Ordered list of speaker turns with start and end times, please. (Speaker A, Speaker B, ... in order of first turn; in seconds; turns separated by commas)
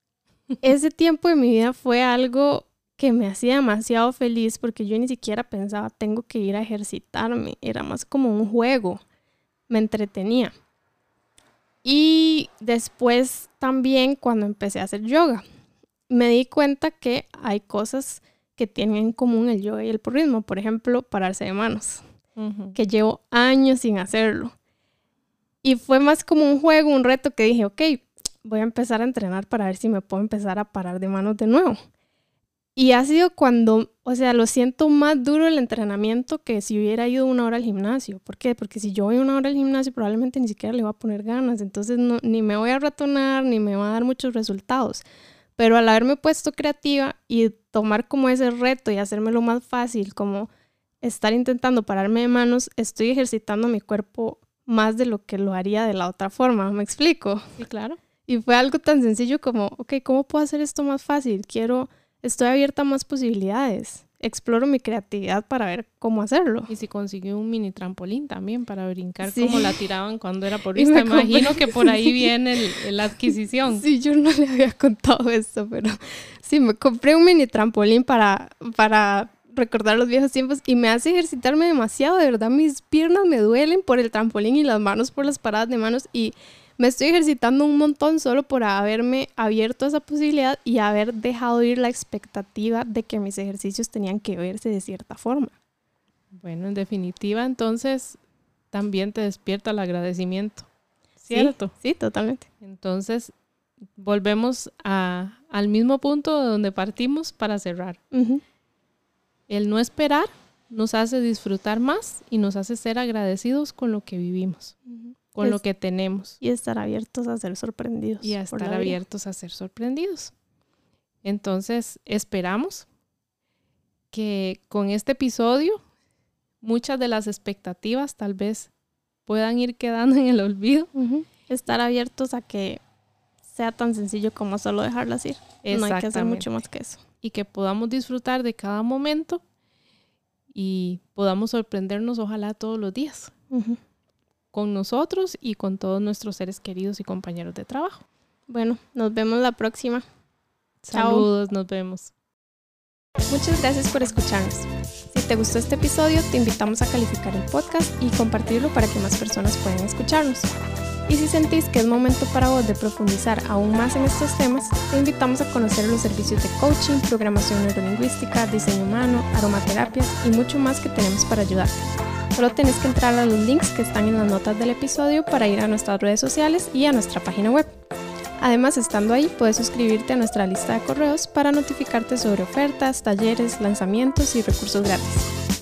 Speaker A: 0.6-9.0, Speaker A: 9.7-10.5, Speaker A: 11.8-15.4, Speaker A: 16.1-22.0, Speaker B: 22.4-22.8, Speaker A: 22.7-24.5, Speaker A: 25.6-31.8, Speaker A: 32.8-45.0, Speaker A: 45.6-50.5, Speaker A: 51.0-57.6, Speaker B: 57.6-58.0, Speaker A: 58.3-66.7, Speaker B: 66.7-73.8, Speaker A: 69.2-69.8, Speaker A: 70.7-72.3, Speaker A: 73.7-95.5, Speaker B: 96.3-98.2, Speaker B: 98.7-100.7, Speaker B: 101.2-101.7, Speaker A: 101.3-102.5, Speaker B: 102.6-103.3, Speaker B: 104.0-108.0, Speaker A: 108.1-108.4, Speaker B: 109.5-114.8, Speaker A: 114.9-115.6, Speaker B: 115.3-116.4, Speaker A: 116.4-119.0, Speaker B: 118.2-120.3, Speaker B: 121.2-122.9, Speaker B: 124.1-125.8, Speaker B: 126.6-128.7, Speaker B: 129.2-130.9, Speaker A: 130.9-132.8, Speaker A: 133.4-137.0, Speaker B: 135.6-136.5, Speaker B: 137.2-139.4, Speaker B: 140.5-143.3, Speaker A: 143.5-143.8, Speaker B: 144.5-148.0, Speaker A: 148.5-150.0, Speaker B: 150.8-152.1, Speaker A: 150.9-151.3, Speaker A: 153.3-160.5, Speaker A: 161.1-177.7, Speaker A: 178.4-185.3